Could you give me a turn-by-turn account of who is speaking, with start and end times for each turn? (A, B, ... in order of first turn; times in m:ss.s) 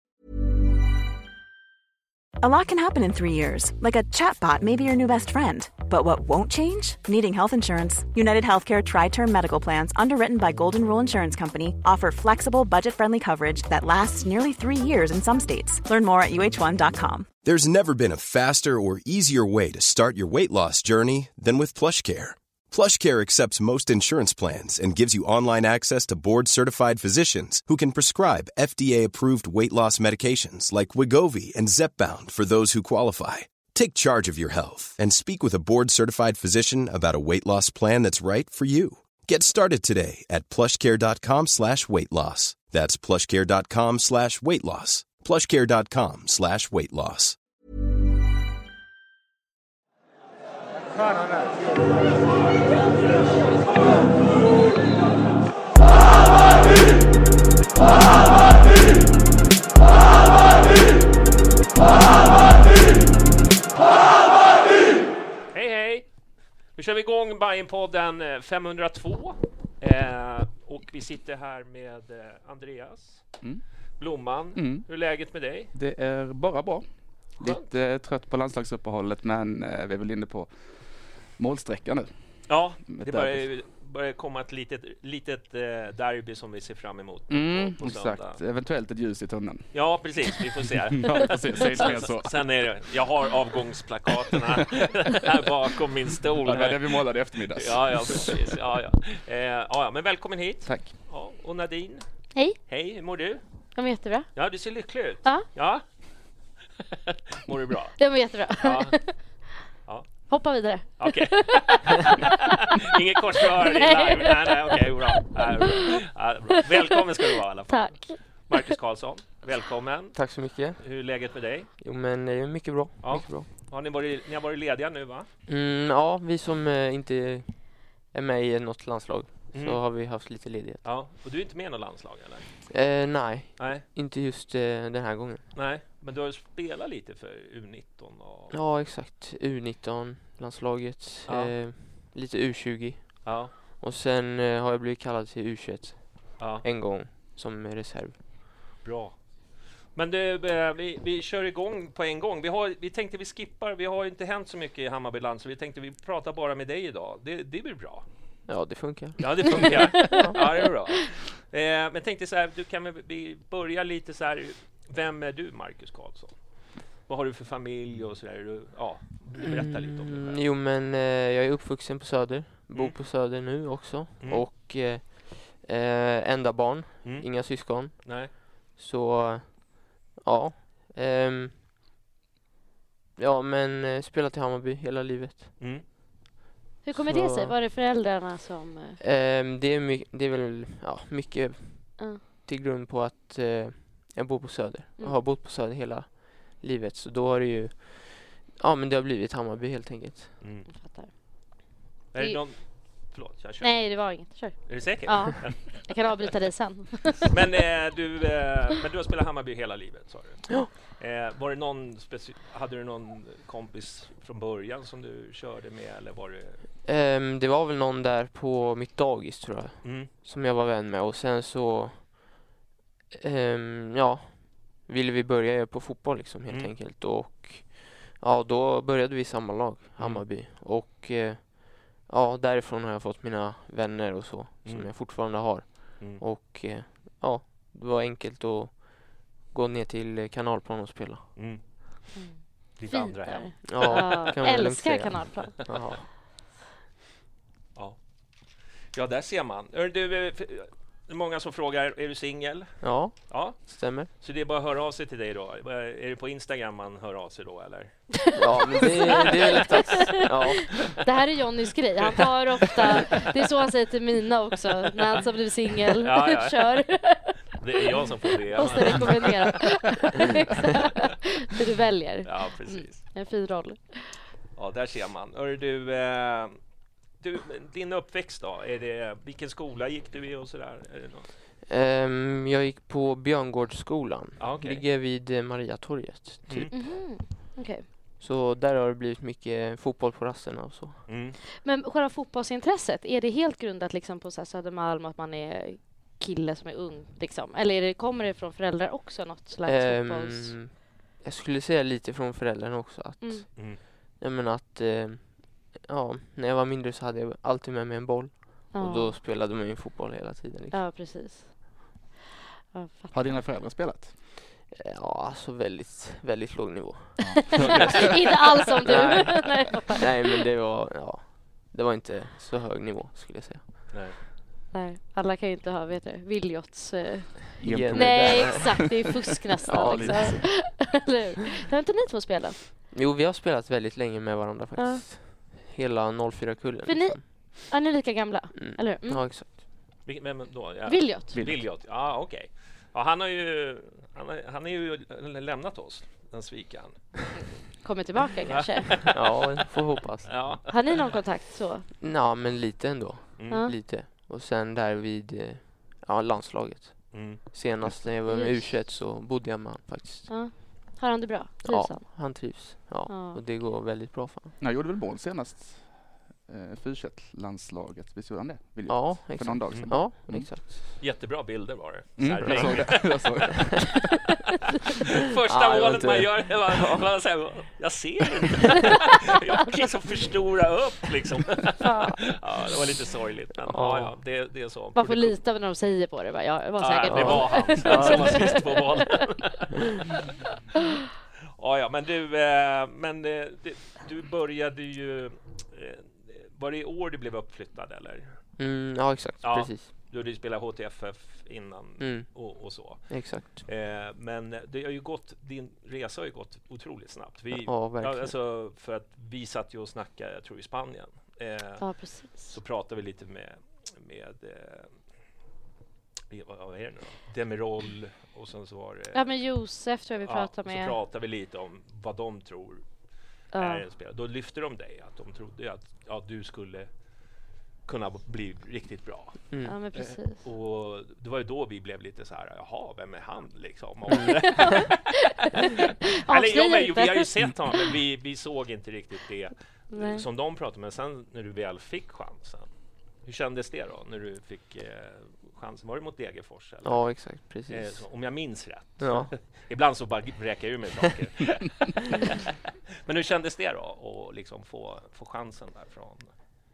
0:02.4-0:17.3 A
0:17.4-0:47.4 B
1:05.5-1:06.1 C
1:06.7-1:13.2 C
1:14.0-1:15.7 C
1:14.5-1:14.9 D
1:15.7-1:23.5 D
1:17.4-1:17.7 C
1:22.5-1:28.4 C
1:27.3-1:30.1 D
1:29.7-1:42.0 C
1:30.6-1:32.8 D
1:36.4-1:38.4 D
1:40.6-1:40.9 D
1:42.6-1:43.4 C
1:43.7-1:44.3 E
1:44.3-1:45.8 C
1:47.1-1:48.0 C
1:48.0-1:49.2 E
1:48.6-1:48.9 C
1:49.8-1:50.3 C
1:50.3-1:52.3 E
1:51.0-2:01.7 C
1:53.4-1:56.0 E
1:56.6-1:58.8 E
2:00.1-2:00.8 F
2:01.8-2:03.5 F
2:03.0-2:05.3 C
2:05.5-2:10.8 F
2:09.5-2:09.8 C
2:10.8-2:12.6 C
2:12.7-2:15.5 F
2:13.6-2:13.8 C
2:15.5-2:18.5 C
2:18.5-2:28.2 F
2:21.2-2:21.5 C
2:23.2-2:23.5 C
2:26.4-2:26.6 C
2:28.8-2:29.2 C
2:29.9-2:38.0 C
2:38.5-2:40.4 F
2:39.2-2:50.4 C
2:39.5-2:40.6 E
2:49.4-3:01.6 F
2:57.0-2:58.3 C
3:03.2-3:05.6 F
3:05.6-3:05.8 C
3:06.8-3:09.0 E
3:06.9-3:07.5 F
3:09.0-3:20.3 F
3:20.4-3:20.7 C
3:20.7-3:21.1 E
3:22.1-3:26.3 C
3:22.2-3:22.4 E
3:23.6-3:27.4 E
3:27.2-3:36.6 C
3:36.8-3:42.4 F
3:39.8-3:40.1 C
3:43.2-4:01.3 F
3:50.0-3:50.2 C
3:54.6-3:54.9 C
4:01.4-4:01.6 C
4:02.1-4:05.7 E
4:02.8-4:04.3 C
4:03.6-4:06.0 F
4:08.9-4:17.9 C
4:12.8-4:14.1 F
4:18.2-4:20.2 E
4:18.4-4:20.8 F
4:21.0-4:34.2 E
4:22.0-4:23.2 C
4:26.0-4:26.8 C
4:27.6-4:29.6 C
4:32.2-4:33.1 C
4:34.5-4:36.6 C
4:37.2-4:41.3 C
4:41.6-4:46.9 F
4:44.4-4:44.8 C
4:46.5-4:47.0 C
4:46.7-4:47.8 E
4:48.2-4:51.0 F
4:51.1-4:51.4 C
4:51.6-5:00.6 E
4:59.6-5:10.8 F
5:03.2-5:03.5 E
5:03.6-5:03.8 C
5:08.7-5:09.2 E
5:10.7-5:11.7 E
5:12.7-5:13.4 E
5:13.1-5:14.1 D
5:14.7-5:17.9 F
5:17.2-5:18.1 D
5:17.5-5:20.4 E
5:18.8-5:19.4 F
5:20.0-5:23.9 F
5:23.9-5:24.2 C
5:24.7-5:32.6 E
5:27.6-5:30.5 D
5:27.6-5:28.9 F
5:29.6-5:30.3 F
5:32.9-5:37.5 F
5:34.8-5:35.1 E
5:36.8-5:39.3 E
5:38.5-5:39.6 F
5:40.0-5:47.4 C
5:40.8-5:41.4 E
5:41.3-5:41.6 D
5:47.8-5:49.0 E
5:48.4-5:49.2 C
5:49.1-5:50.3 F
5:50.2-5:51.2 C
5:50.7-5:51.9 E
5:52.0-6:00.3 F
5:53.4-5:53.6 C
5:53.5-5:53.8 E
5:57.1-5:57.5 C
5:58.3-5:58.7 E
6:00.3-6:02.5 E
6:01.6-6:04.5 F
6:03.1-6:03.4 E
6:04.6-6:10.5 D
6:08.9-6:10.8 F
6:09.7-6:13.5 C
6:12.2-6:14.0 D
6:12.4-6:13.2 F
6:15.2-6:25.4 C
6:15.5-6:17.0 F
6:21.8-6:22.2 E
6:23.7-6:24.1 F
6:24.9-6:29.1 E
6:26.8-6:30.2 C
6:27.1-6:28.6 F
6:31.6-6:38.4 C
6:38.6-6:39.9 F
6:39.4-6:54.9 C
6:42.0-6:42.5 F
6:43.1-6:43.6 F
6:47.6-6:48.3 F
6:51.8-6:52.6 E
6:56.3-6:59.4 C
6:59.1-7:01.0 E
7:00.2-7:02.8 C
7:03.5-7:03.9 E
7:03.6-7:06.9 C
7:07.8-7:22.7 C
7:09.6-7:10.4 E
7:14.1-7:17.8 E
7:19.9-7:20.2 E
7:23.2-7:32.4 C
7:26.8-7:28.1 F
7:29.0-7:29.3 F
7:33.0-7:36.3 C